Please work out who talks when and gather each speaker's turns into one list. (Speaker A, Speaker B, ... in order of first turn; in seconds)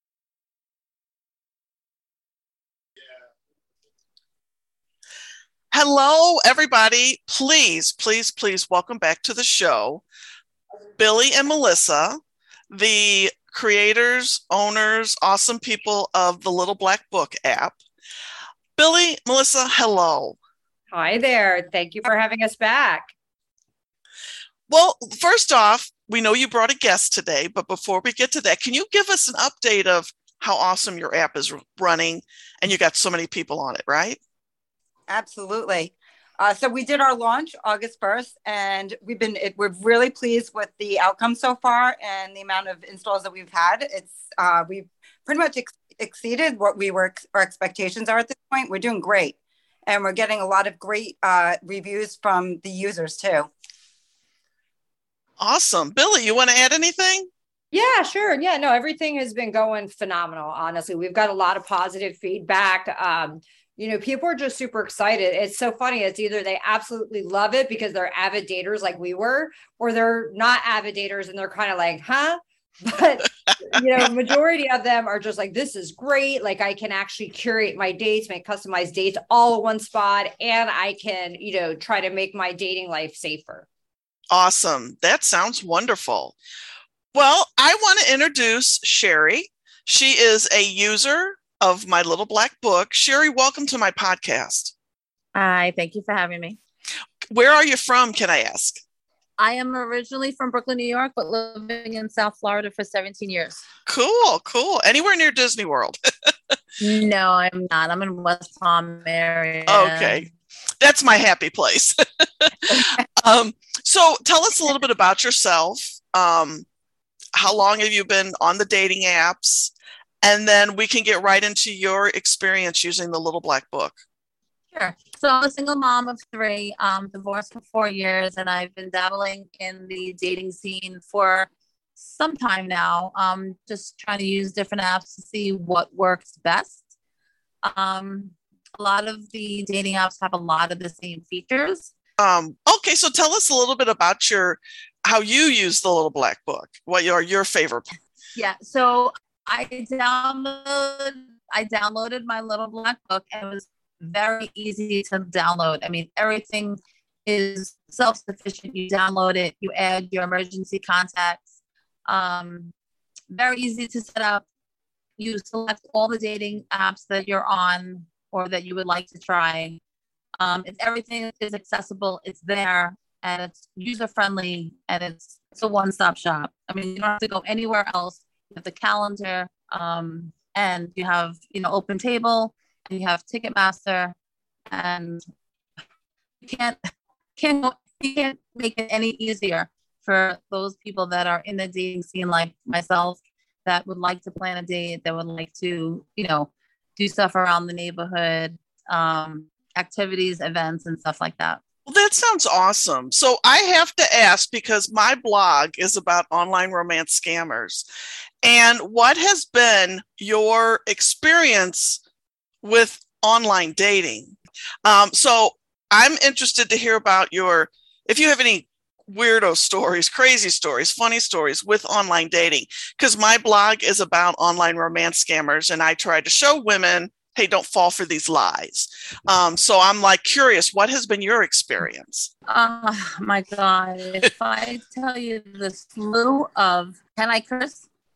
Speaker A: 5.7-10.0, 11.0-17.8, 18.8-20.4, 24.7-34.2, 55.4-57.3, 73.4-73.8, 84.3-86.3, 87.1-94.7, 97.3-98.8, 103.9-106.3, 109.7-110.2, 110.8-116.7, 117.3-124.0, 142.2-147.9, 201.9-207.8, 208.4-212.0, 212.6-232.3
Speaker B: 20.9-23.1, 57.7-83.7
Speaker C: 35.1-53.5
Speaker D: 95.3-96.6, 99.4-103.6, 106.8-110.3, 124.7-136.8, 137.6-141.9, 148.3-162.7, 163.3-164.4, 165.2-169.8, 170.4-184.1, 184.7-185.2, 186.4-201.6, 232.5-237.8